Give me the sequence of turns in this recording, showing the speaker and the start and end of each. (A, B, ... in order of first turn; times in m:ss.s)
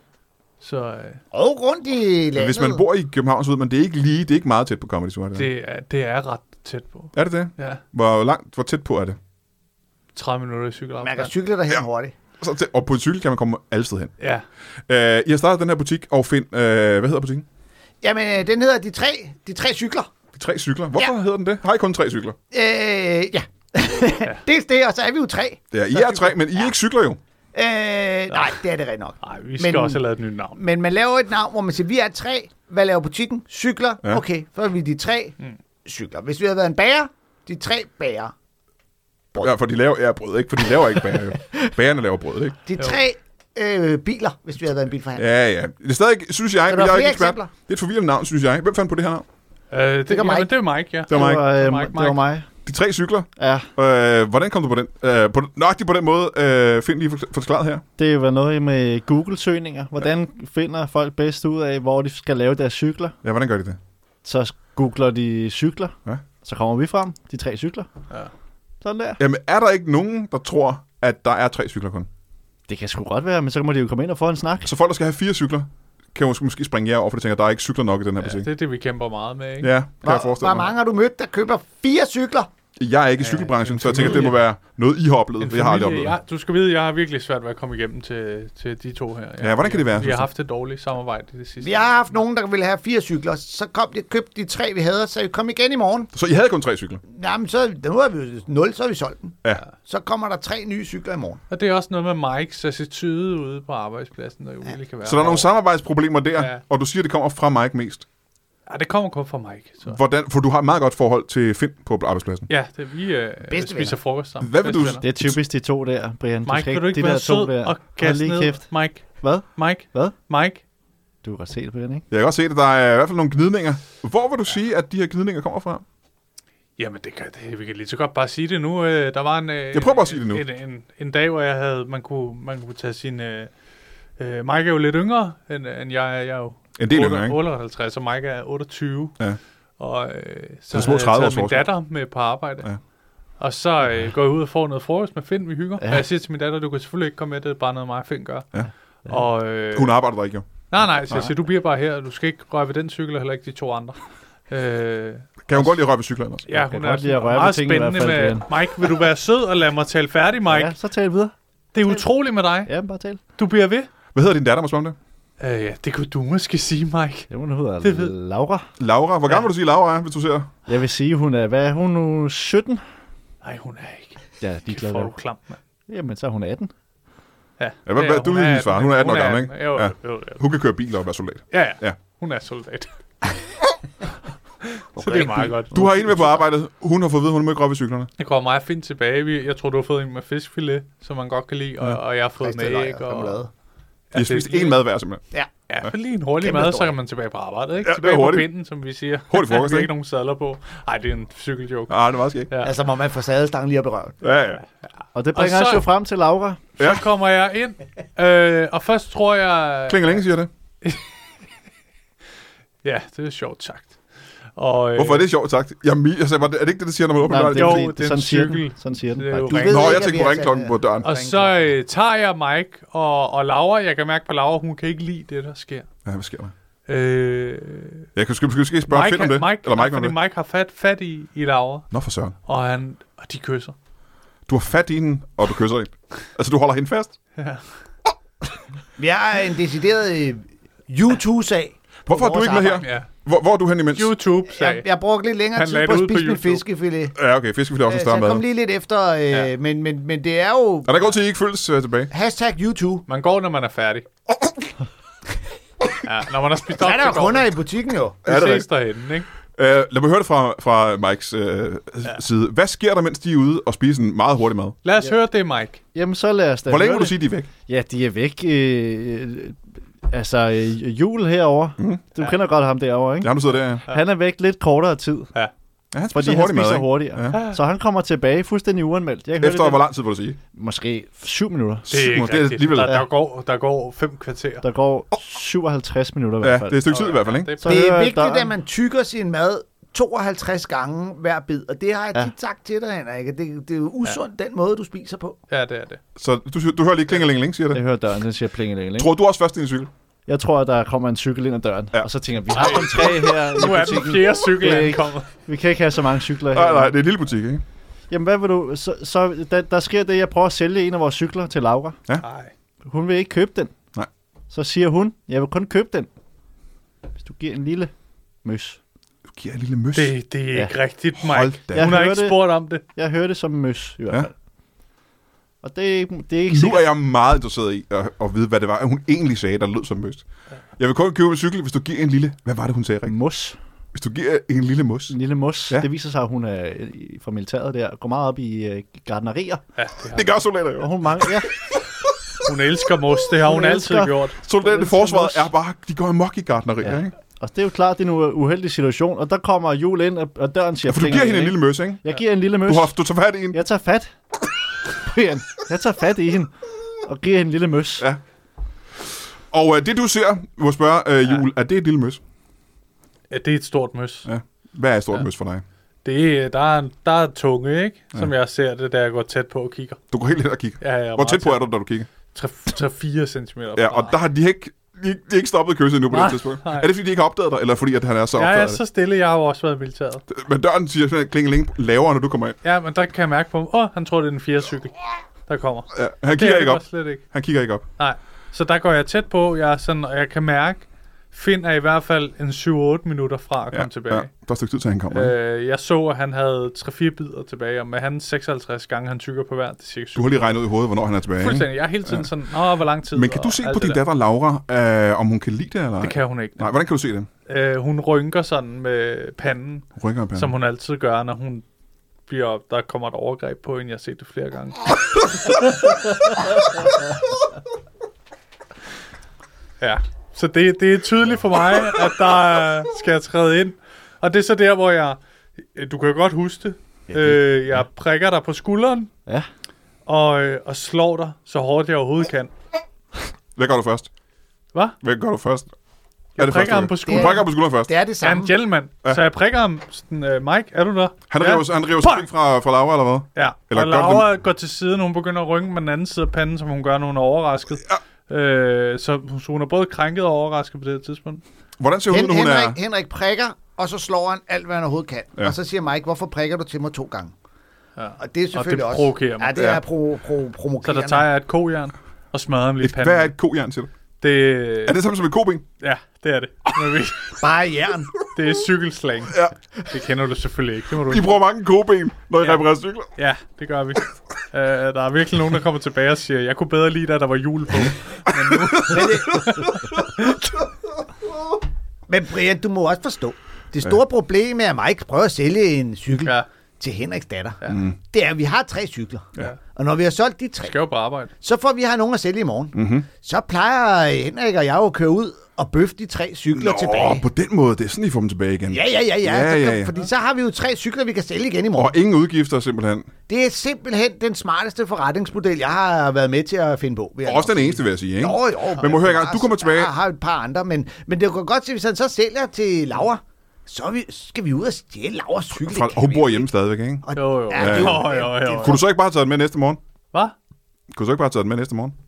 0:00.6-0:01.2 A
0:01.3-0:02.8 B
0:02.4-0:05.5 C
0:05.3-0:07.8 A
0:07.1-0:09.2 C
0:10.1-0:11.3 A
0:11.0-0:12.1 B
0:12.4-0:14.1 C
0:14.2-0:14.4 A
0:14.9-0:17.4 C
0:18.0-0:20.1 B
0:20.3-0:22.4 C
0:22.5-0:26.7 B
0:25.7-0:27.2 C
0:27.5-0:30.0 B
0:28.3-0:28.6 A
0:29.2-0:30.6 A
0:30.5-0:38.3 B
0:39.4-0:42.6 C
0:40.9-0:41.6 B
0:42.6-0:45.3 B
0:45.2-0:49.3 C
0:46.7-0:47.5 B
0:49.7-0:52.2 A
0:50.1-0:50.5 B
0:51.1-0:51.4 C
0:51.1-0:52.5 D
0:52.6-0:57.8 C
0:53.4-0:53.7 D
0:58.0-1:03.2 D
1:03.2-1:03.8 C
1:04.2-1:07.9 D
1:08.8-1:09.2 D
1:09.2-1:12.1 C
1:12.7-1:14.7 D
1:14.6-1:18.5 C
1:18.2-1:19.7 A
1:19.6-1:20.7 C
1:20.0-1:22.5 B
1:22.8-1:26.1 C
1:23.2-1:24.4 A
1:25.4-1:32.0 A
1:29.4-1:30.3 C
1:31.6-1:36.1 B
1:36.1-1:37.0 C
1:37.1-1:41.4 B
1:41.5-1:45.5 A
1:45.0-1:48.0 C
1:46.3-1:46.6 A
1:48.7-1:50.0 A
1:49.9-1:52.5 C
1:52.5-1:55.0 A
1:53.5-1:54.0 B
1:54.4-1:55.4 C
1:55.0-1:58.7 D
1:56.5-2:00.6 A
1:59.2-2:00.1 D
2:01.2-2:02.0 D
2:02.1-2:05.8 C
2:06.8-2:13.5 A
2:09.7-2:10.4 C
2:14.2-2:19.2 A
2:16.8-2:17.4 C
2:19.8-2:22.7 A
2:20.7-2:21.7 C
2:23.4-2:30.0 A
2:29.7-2:30.5 C
2:30.7-2:35.7 A
2:35.5-2:36.4 C
2:36.5-2:40.7 A
2:36.5-2:38.5 D
2:40.4-2:41.3 D
2:41.7-2:42.7 A
2:42.6-2:43.2 D
2:43.4-2:43.9 A
2:44.1-2:45.0 C
2:45.4-2:47.3 A
2:47.3-2:48.7 D
2:47.8-2:48.1 A
2:48.8-2:50.5 C
2:50.7-2:52.8 D
2:53.4-2:55.6 A
2:54.4-2:55.1 D
2:55.9-2:56.7 D
2:57.6-3:00.4 A
2:57.9-3:02.0 C
3:01.5-3:02.9 A
3:04.8-3:06.4 A
3:05.0-3:05.6 B
3:05.7-3:08.1 C
3:08.2-3:13.4 A
3:12.4-3:13.5 B
3:14.1-3:14.8 A
3:14.1-3:15.2 C
3:15.7-3:22.7 A
3:16.4-3:17.0 B
3:17.8-3:18.5 C
3:19.3-3:19.9 C
3:21.9-3:22.5 C
3:22.6-3:24.2 B
3:24.2-3:24.6 C
3:25.1-3:26.6 D
3:25.3-3:25.9 A
3:26.8-3:27.0 C
3:26.8-3:30.2 A
3:29.9-3:30.5 C
3:32.8-3:34.0 A
3:34.6-3:35.3 A
3:35.0-3:37.9 C
3:37.3-3:39.8 D
3:37.5-3:40.1 A
3:39.5-3:41.6 B
3:39.6-3:41.1 C
3:41.0-3:45.9 A
3:46.0-3:46.5 C
3:46.9-3:48.1 A
3:48.2-3:50.1 C
3:48.9-3:51.9 A
3:51.9-3:52.3 C
3:52.4-3:53.7 A
3:54.5-3:57.1 C
3:57.4-3:57.7 A
3:59.0-4:02.9 B
4:02.0-4:04.1 C
4:02.8-4:03.1 A
4:03.9-4:04.9 A
4:04.5-4:07.2 B
4:05.5-4:06.6 A
4:07.2-4:08.4 C
4:07.9-4:11.1 B
4:10.8-4:12.1 C
4:12.1-4:13.0 B
4:13.1-4:14.0 A
4:16.0-4:17.5 A
4:16.7-4:18.2 B
4:18.2-4:19.3 A
4:18.3-4:18.7 C
4:19.6-4:24.8 C
4:24.8-4:25.8 A
4:25.9-4:35.3 D
4:26.7-4:27.5 C
4:33.2-4:33.8 C
4:35.9-4:37.4 C
4:36.1-4:39.8 D
4:37.3-4:37.6 A
4:39.4-4:40.4 C
4:40.5-4:41.9 D
4:41.9-4:43.0 C
4:41.9-4:44.6 A
4:44.6-4:46.8 D
4:46.4-4:47.6 C
4:46.9-4:47.9 A
4:47.6-4:48.5 D
4:47.6-4:55.4 B
4:55.5-4:56.0 A
4:56.2-4:57.8 C
4:57.7-4:59.1 D
4:59.0-4:59.9 C
5:00.3-5:07.0 D
5:02.6-5:05.3 A
5:06.5-5:07.6 C
5:08.1-5:12.0 D
5:12.2-5:12.5 A
5:12.9-5:13.7 D
5:14.5-5:16.1 D
5:17.2-5:17.9 D
5:18.4-5:18.8 D
5:19.3-5:20.1 C
5:19.9-5:22.8 A
5:21.2-5:21.9 C
5:21.7-5:24.3 D
5:25.6-5:26.8 D
5:26.5-5:30.2 C
5:30.8-5:33.2 C
5:33.0-5:33.6 D
5:33.9-5:35.1 C
5:35.1-5:39.6 D
5:39.8-5:40.3 A
5:40.1-5:41.3 C
5:40.8-5:41.5 D
5:42.4-5:44.4 A
5:43.4-5:45.5 D
5:44.4-5:47.1 C
5:46.8-5:53.0 D
5:50.9-5:52.0 C
5:52.6-5:53.6 C
5:53.5-5:54.1 D
5:54.9-5:56.5 D
5:57.0-5:58.1 D
5:59.5-6:02.2 C
6:03.3-6:04.3 A
6:04.3-6:05.6 C
6:06.0-6:10.0 A
6:10.1-6:12.1 C
6:10.8-6:11.7 A
6:12.3-6:14.2 A
6:13.8-6:18.8 C
6:16.1-6:16.9 A
6:18.3-6:20.2 A
6:20.3-6:22.6 C
6:22.6-6:27.2 A
6:25.9-6:27.8 C
6:28.0-6:34.3 A
6:33.7-6:35.3 C
6:35.1-6:40.6 A
6:40.2-6:42.3 C
6:41.4-6:44.0 A
6:43.1-6:47.3 C
6:46.0-6:46.7 A
6:47.5-6:51.6 A
6:50.0-6:50.5 C
6:52.3-6:54.9 A
6:59.8-7:09.1 A
7:07.1-7:07.4 D
7:10.0-7:12.5 A
7:13.6-7:14.1 C
7:15.0-7:15.7 C
7:16.4-7:17.5 A
7:16.4-7:17.9 C
7:17.1-7:18.6 B
7:18.2-7:22.3 A
7:21.3-7:24.3 C
7:23.3-7:31.4 A
7:31.8-7:32.8 C
7:32.1-7:37.3 B
7:38.0-7:39.8 A
7:38.2-7:41.3 B
7:40.8-7:43.3 A
7:42.8-7:43.9 C
7:44.2-7:45.1 A
7:44.8-7:45.6 C
7:45.8-7:47.4 A
7:47.4-7:48.1 B
7:48.3-7:51.4 A
7:51.0-7:53.1 C
7:52.4-7:52.6 A
7:53.2-8:00.4 A
7:58.3-8:00.0 C
7:58.9-7:59.4 B
8:02.1-8:10.8 B
8:06.2-8:06.4 A
8:07.6-8:08.0 C
8:10.6-8:11.3 A
8:11.4-8:17.3 B
8:12.7-8:13.1 C
8:16.6-8:19.9 C
8:18.7-8:22.0 B
8:21.8-8:23.1 C
8:23.3-8:36.5 B
8:27.2-8:29.9 C
8:35.6-8:39.8 C
8:37.0-8:38.8 B
8:37.2-8:38.8 A
8:40.9-8:42.0 C